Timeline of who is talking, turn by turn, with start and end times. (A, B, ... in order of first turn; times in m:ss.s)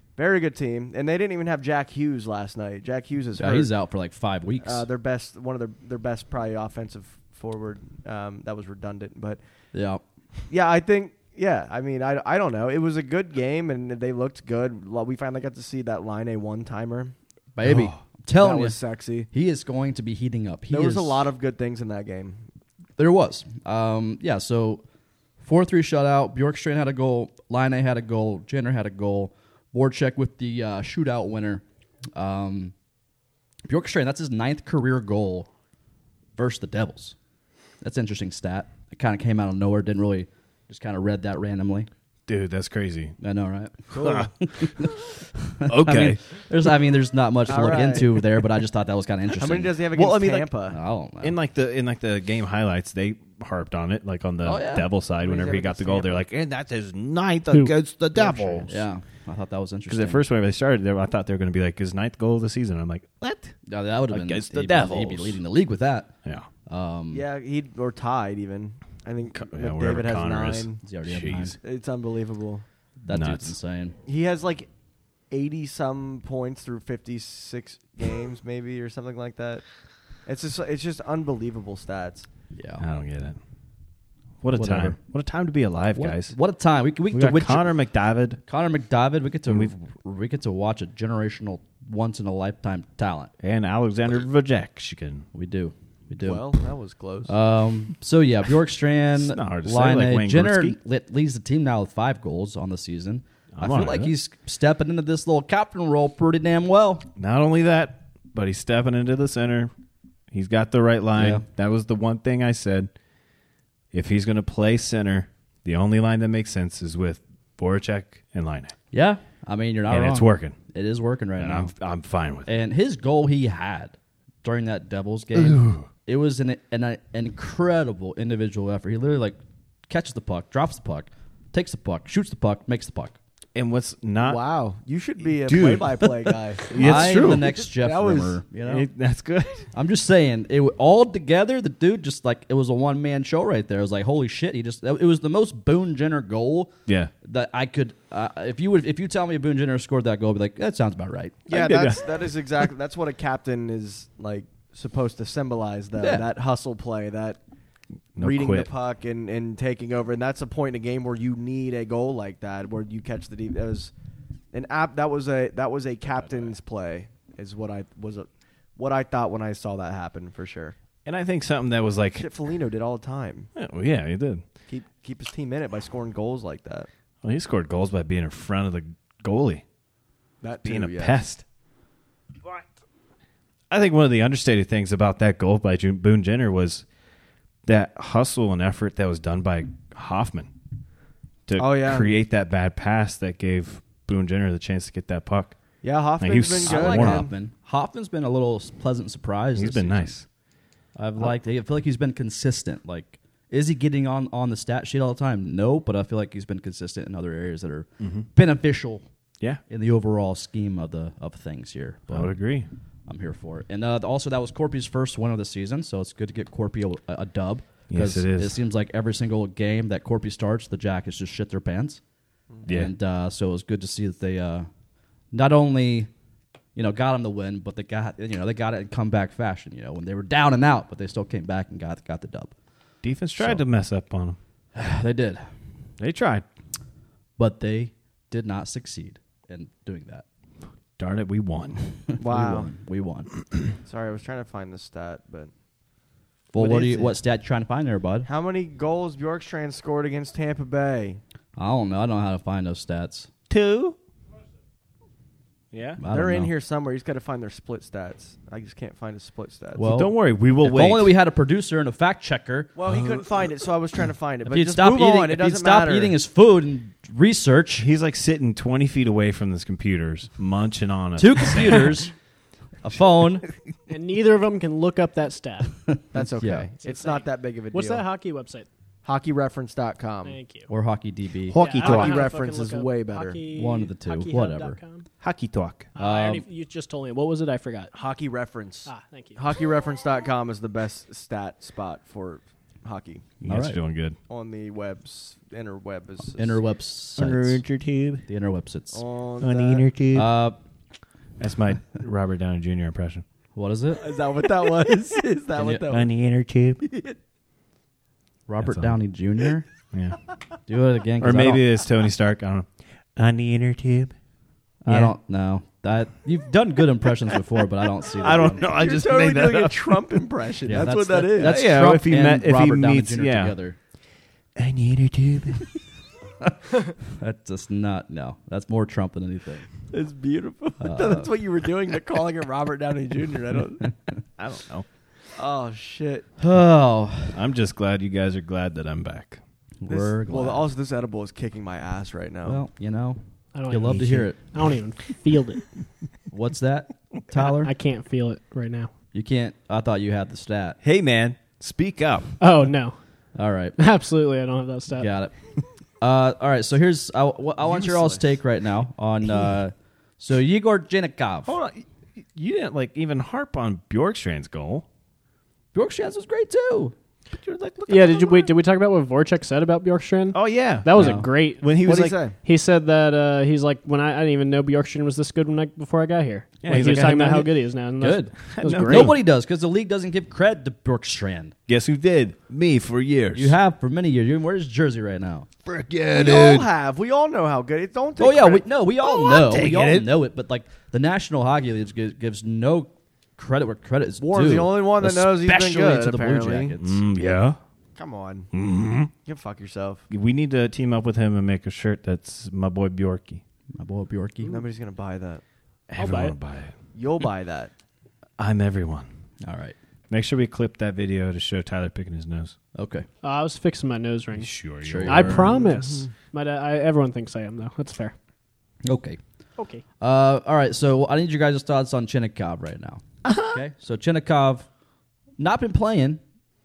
0:00.2-0:03.7 A
0:03.4-0:04.8 B
0:04.6-0:09.4 A
0:09.7-0:10.0 B
0:10.5-0:17.1 A
0:17.5-0:18.8 B
0:17.6-0:18.0 C
0:18.3-0:19.3 A
0:19.3-0:21.2 B
0:20.7-0:22.4 A
0:23.0-0:24.8 B
0:25.4-0:31.6 B
0:32.1-0:32.7 B
0:33.7-0:35.5 B
0:36.4-0:37.2 B
0:37.8-0:41.9 B
0:42.3-0:43.2 C
0:43.2-0:49.8 B
0:43.9-0:44.9 C
0:45.6-0:46.2 C
0:47.5-0:48.1 A
0:49.4-0:50.8 A
0:49.9-0:50.5 C
0:50.7-0:51.4 B
0:51.2-0:58.8 C
0:54.4-0:54.9 B
0:55.2-0:56.2 A
0:58.1-0:58.6 A
0:58.7-1:00.2 B
0:59.9-1:03.6 C
1:03.6-1:06.1 B
1:04.1-1:05.4 C
1:06.7-1:07.2 B
1:07.1-1:10.8 A
1:09.3-1:11.6 C
1:10.8-1:11.6 B
1:11.6-1:12.6 A
1:13.0-1:14.0 B
1:13.1-1:13.5 C
1:14.0-1:14.7 A
1:15.3-1:19.6 A
1:20.2-1:22.3 A
1:22.5-1:22.8 B
1:22.8-1:23.4 C
1:24.4-1:26.4 C
1:24.5-1:25.0 B
1:25.9-1:27.7 B
1:27.1-1:28.4 C
1:28.4-1:33.3 B
1:29.5-1:29.7 C
1:33.4-1:35.2 C
1:35.3-1:36.5 B
1:36.2-1:37.3 A
1:37.2-1:47.0 B
1:39.1-1:40.8 C
1:43.5-1:44.1 C
1:47.2-1:49.7 C
1:50.3-1:52.9 C
1:51.2-1:51.4 B
1:53.9-1:58.7 C
1:58.9-2:01.7 B
1:59.9-2:00.6 C
2:01.4-2:02.5 C
2:02.4-2:13.2 B
2:05.3-2:05.8 C
2:13.5-2:14.4 C
2:14.2-2:18.4 A
2:15.4-2:17.5 C
2:16.7-2:18.8 B
2:18.6-2:19.7 C
2:19.7-2:26.7 B
2:26.9-2:27.1 C
2:27.2-2:31.4 B
2:31.5-2:37.4 A
2:31.5-2:32.0 C
2:36.0-2:36.2 B
2:38.1-2:38.7 C
2:38.2-2:43.9 A
2:44.5-2:50.7 A
2:51.0-2:52.3 C
2:52.2-2:53.5 A
2:53.6-2:54.4 C
2:54.7-2:56.9 A
2:57.2-2:59.6 C
3:00.4-3:01.2 A
3:00.6-3:01.4 C
3:03.7-3:06.8 C
3:07.6-3:10.5 C
3:11.5-3:15.6 C
3:11.6-3:12.1 A
3:15.8-3:17.3 A
3:16.2-3:17.3 C
3:16.6-3:20.1 B
3:19.6-3:20.2 C
3:21.0-3:29.0 B
3:28.0-3:28.2 C
3:29.7-3:32.4 B
3:32.1-3:32.7 C
3:33.1-3:42.0 B
3:37.9-3:38.6 C
3:42.6-3:42.9 C
3:42.6-3:44.7 B
3:45.3-3:46.1 B
3:46.7-3:52.5 B
3:53.0-3:54.4 C
3:54.7-3:55.5 B
3:56.0-3:56.4 C
3:57.4-4:00.2 B
4:01.0-4:01.8 C
4:02.1-4:03.3 B
4:02.2-4:02.7 A
4:03.8-4:05.5 A
4:06.5-4:08.3 B
4:06.6-4:07.2 A
4:08.2-4:11.2 A
4:11.6-4:13.3 B
4:13.5-4:14.0 C
4:15.7-4:16.0 C
4:16.0-4:16.5 B
4:16.1-4:19.9 A
4:19.8-4:22.7 B
4:19.9-4:21.1 C
4:22.8-4:26.1 A
4:22.9-4:23.2 C
4:24.4-4:27.9 B
4:27.8-4:32.0 C
4:31.2-4:32.1 B
4:32.8-4:33.4 B
4:33.9-4:35.8 D
4:35.9-4:36.7 B
4:36.1-4:38.0 A
4:36.8-4:38.7 D
4:39.0-4:40.4 A
4:40.2-4:40.7 D
4:40.7-4:41.6 B
4:41.5-4:42.2 C
4:41.5-4:45.1 D
4:41.8-4:43.4 A
4:43.5-4:44.8 B
4:45.2-4:45.9 C
4:46.0-4:47.9 D
4:46.0-4:46.4 B
4:47.9-4:53.3 A
4:48.8-4:49.4 D
4:53.4-4:54.2 C
4:53.4-4:53.8 B
4:54.3-4:56.6 A
4:56.4-4:57.6 B
4:57.2-4:58.2 C
4:58.3-4:59.0 B
4:58.9-4:59.9 A
4:59.4-5:00.3 C
5:00.1-5:00.6 B
5:01.4-5:03.2 C
5:03.5-5:04.0 B
5:04.0-5:06.1 A
5:05.7-5:06.8 C
5:06.8-5:07.1 A
5:08.5-5:09.6 B
5:08.6-5:09.0 C
5:09.9-5:10.2 C
5:10.7-5:11.6 B
5:11.2-5:14.1 C
5:14.8-5:18.6 B
5:14.9-5:15.1 C
5:18.1-5:20.0 C
5:18.6-5:21.6 A
5:20.7-5:23.8 B
5:21.4-5:23.6 C
5:24.6-5:25.7 C
5:26.4-5:29.7 B
5:29.9-5:33.9 A
5:30.8-5:31.3 B
5:34.4-5:34.8 C
5:35.4-5:36.3 A
5:36.4-5:37.4 B
5:37.3-5:39.4 C
5:39.8-5:40.7 B
5:39.9-5:42.6 A
5:42.4-5:44.4 B
5:43.5-5:45.6 D
5:46.3-5:47.7 B
5:47.5-5:48.9 D
5:49.1-5:50.8 B
5:50.8-5:52.3 C
5:52.4-5:53.0 D
5:53.4-5:53.8 B
5:53.8-5:55.1 D
5:55.0-5:55.3 B
5:56.0-6:01.6 B
5:57.6-5:58.2 A
6:01.4-6:04.8 C
6:05.7-6:06.9 B
6:07.3-6:08.5 C
6:07.9-6:19.2 D
6:10.3-6:12.2 C
6:10.9-6:11.3 B
6:11.8-6:12.4 A
6:16.6-6:17.5 C
6:18.0-6:21.5 B
6:18.6-6:19.1 C
6:21.7-6:23.5 C
6:23.3-6:25.5 B
6:25.6-6:26.7 C
6:26.1-6:28.6 A
6:28.2-6:37.0 B
6:29.0-6:30.1 C
6:34.2-6:36.7 A
6:36.8-6:37.6 C
6:38.0-6:38.5 A
6:38.5-6:39.1 C
6:39.2-6:40.0 A
6:40.1-6:43.4 C
6:43.8-6:44.6 B
6:44.5-6:45.4 A
6:45.9-6:46.7 C
6:46.0-6:46.3 D
6:46.9-6:47.7 A
6:48.4-6:49.1 C
6:49.4-6:49.7 B
6:50.1-6:52.6 C
6:52.8-6:53.1 B
6:53.2-6:58.1 D
6:54.3-6:55.7 C
6:54.8-6:55.6 B
6:55.6-6:56.1 A
6:58.8-6:59.2 B
6:59.6-6:59.8 D
7:00.0-7:04.7 B
7:03.2-7:03.6 C
7:05.4-7:06.2 B